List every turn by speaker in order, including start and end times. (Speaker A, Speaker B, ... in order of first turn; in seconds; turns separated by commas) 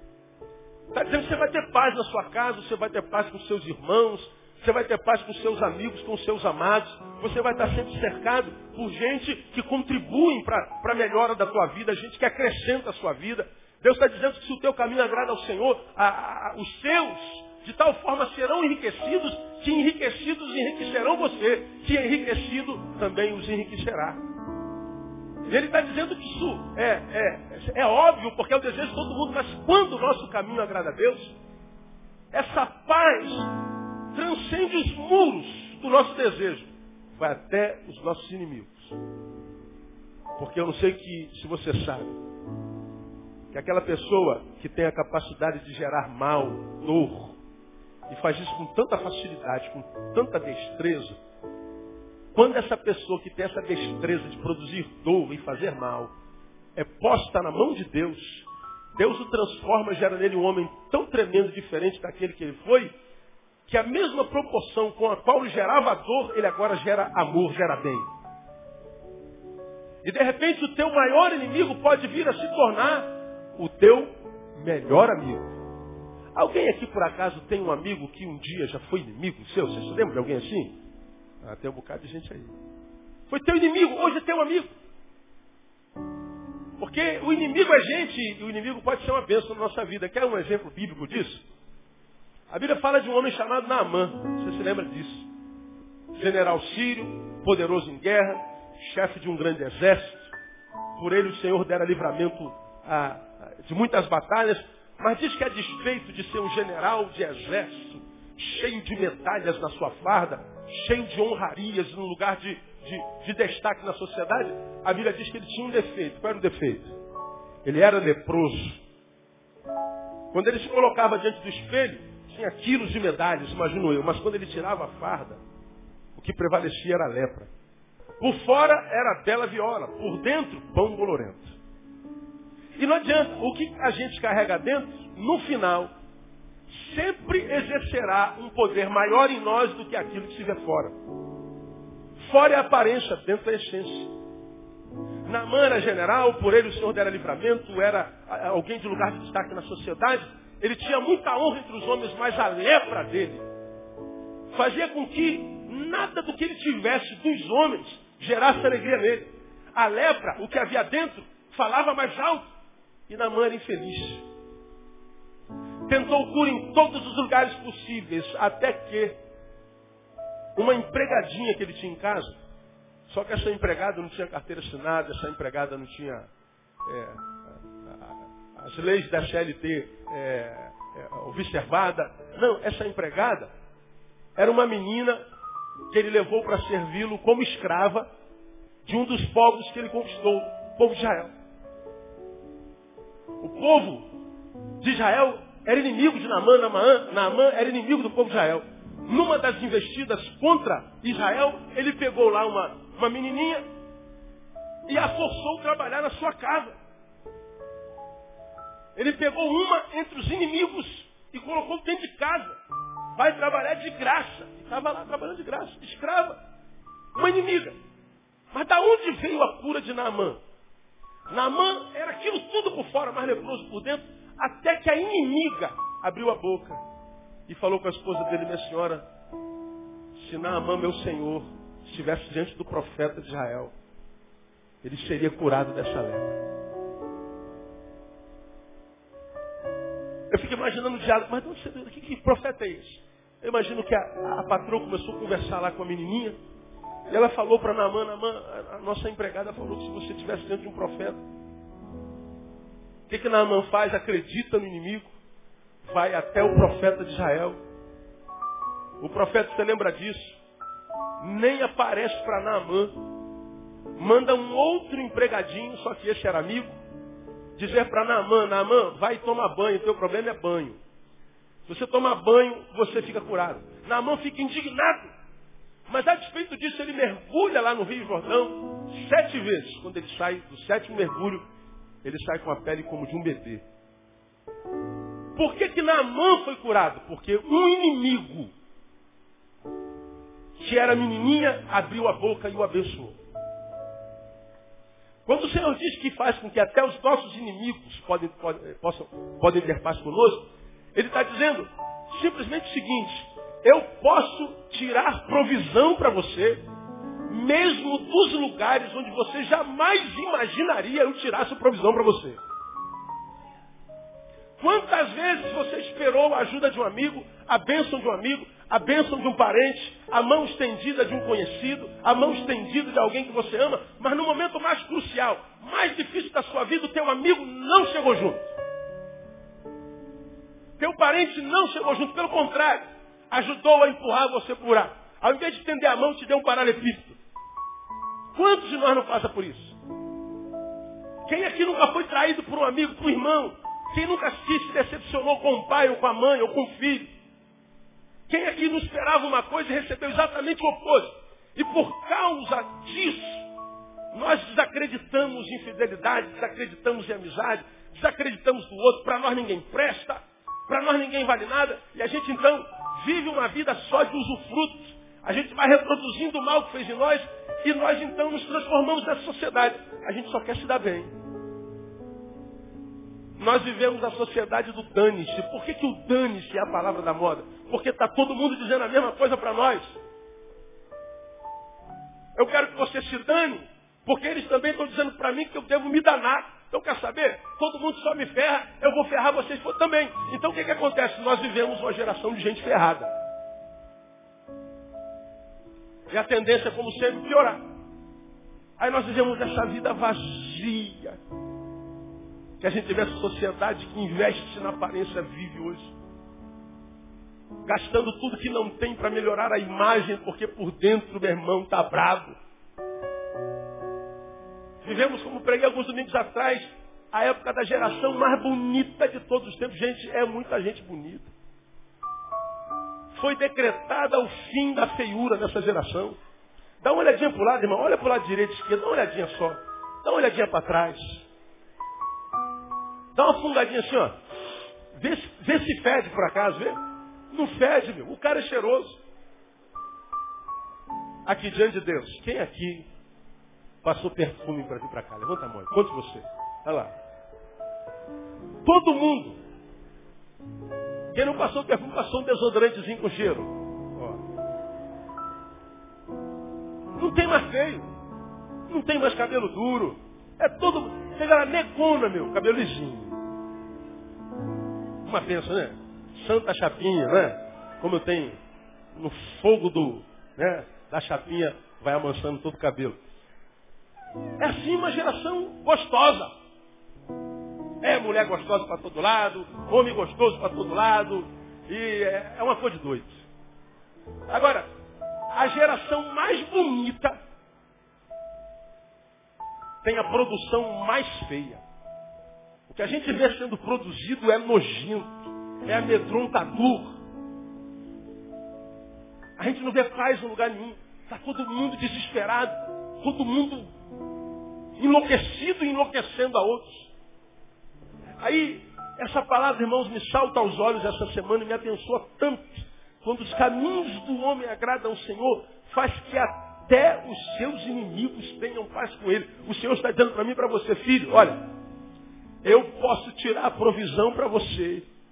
Speaker A: 0.9-24.2, Speaker A: 25.5-31.3, Speaker A: 32.3-33.5, Speaker A: 34.1-39.0, Speaker A: 40.4-42.1, Speaker A: 43.5-47.4, Speaker A: 48.1-51.2, Speaker A: 52.3-56.1, Speaker A: 56.8-62.9, Speaker A: 63.7-68.1, Speaker A: 70.0-75.5, Speaker A: 76.3-80.8, Speaker A: 81.4-82.5, Speaker A: 83.3-84.7, Speaker A: 86.8-91.4, Speaker A: 92.5-95.3, Speaker A: 96.1-100.3, Speaker A: 101.0-117.0, Speaker A: 117.6-118.8, Speaker A: 120.3-125.4, Speaker A: 126.1-127.5, Speaker A: 128.2-131.6, Speaker A: 132.8-135.9, Speaker A: 136.7-140.9, Speaker A: 142.2-144.1, Speaker A: 145.2-153.4, Speaker A: 154.5-162.5, Speaker A: 163.1-164.2, Speaker A: 165.8-169.2, Speaker A: 170.6-172.3, Speaker A: 173.1-176.3, Speaker A: 176.8-183.5, Speaker A: 184.3-185.2, Speaker A: 185.9-188.1, Speaker A: 188.8-191.3, Speaker A: 193.4-194.1, Speaker A: 194.8-203.6, Speaker A: 204.9-206.7, Speaker A: 208.9-212.6, Speaker A: 213.2-216.4, Speaker A: 217.1-217.8, Speaker A: 218.5-220.4, Speaker A: 221.3-226.8, Speaker A: 227.5-229.0, Speaker A: 230.1-233.7, Speaker A: 234.8-236.4, Speaker A: 240.3-246.3, Speaker A: 247.1-251.2, Speaker A: 253.1-255.1, Speaker A: 255.8-257.6, Speaker A: 259.0-260.4, Speaker A: 261.2-263.0, Speaker A: 263.9-266.7, Speaker A: 267.6-270.8, Speaker A: 271.6-275.1, Speaker A: 275.9-281.4, Speaker A: 282.0-283.6, Speaker A: 285.4-288.5, Speaker A: 290.6-293.2, Speaker A: 295.2-300.4, Speaker A: 300.9-306.6, Speaker A: 307.3-312.4, Speaker A: 314.6-328.5, Speaker A: 330.8-337.2, Speaker A: 338.3-339.8, Speaker A: 341.2-347.1, Speaker A: 348.3-353.5, Speaker A: 354.1-371.1, Speaker A: 373.4-380.0, Speaker A: 382.4-393.1, Speaker A: 396.1-397.6, Speaker A: 398.8-401.2, Speaker A: 402.6-405.9, Speaker A: 407.6-412.4, Speaker A: 414.8-421.3, Speaker A: 423.1-426.2, Speaker A: 426.8-431.2, Speaker A: 433.1-434.1, Speaker A: 434.9-436.8, Speaker A: 437.3-439.0, Speaker A: 441.2-442.9, Speaker A: 443.8-446.9, Speaker A: 448.6-449.4, Speaker A: 451.1-454.2, Speaker A: 456.9-457.9, Speaker A: 458.7-463.2, Speaker A: 465.0-468.4, Speaker A: 468.9-473.0, Speaker A: 474.4-476.3, Speaker A: 477.8-483.2, Speaker A: 484.3-484.6, Speaker A: 485.3-487.2, Speaker A: 489.8-491.6, Speaker A: 492.7-497.0, Speaker A: 499.4-503.7, Speaker A: 504.8-506.9, Speaker A: 508.2-521.5, Speaker A: 522.4-524.9